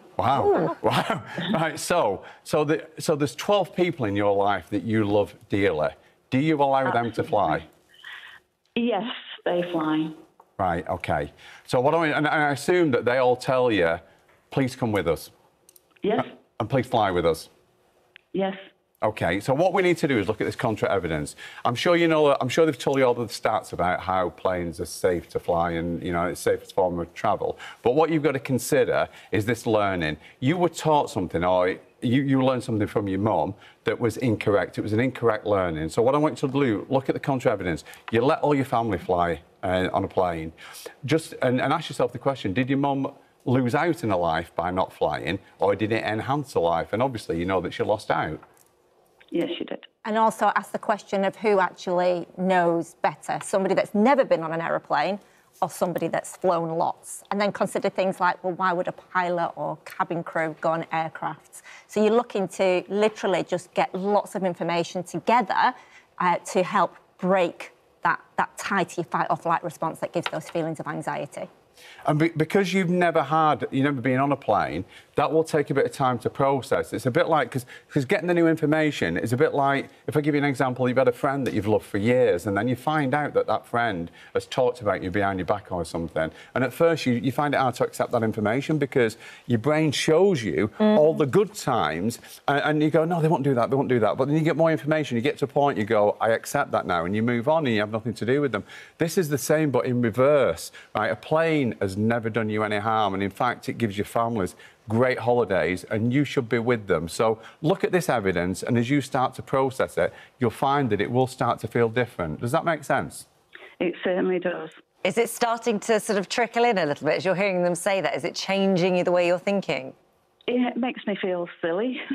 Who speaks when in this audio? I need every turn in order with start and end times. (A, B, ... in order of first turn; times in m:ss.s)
0:00.2-0:07.6 A
0:06.8-0:07.6 B
0:08.8-0:10.1 B
0:10.6-0:15.3 A
0:16.2-0:17.5 A
0:19.0-0:48.4 A
0:49.3-0:49.8 B
0:50.0-1:11.5 C
1:12.0-1:53.2 A
1:53.8-1:54.8 B
1:55.0-1:59.9 D
2:00.5-2:02.0 B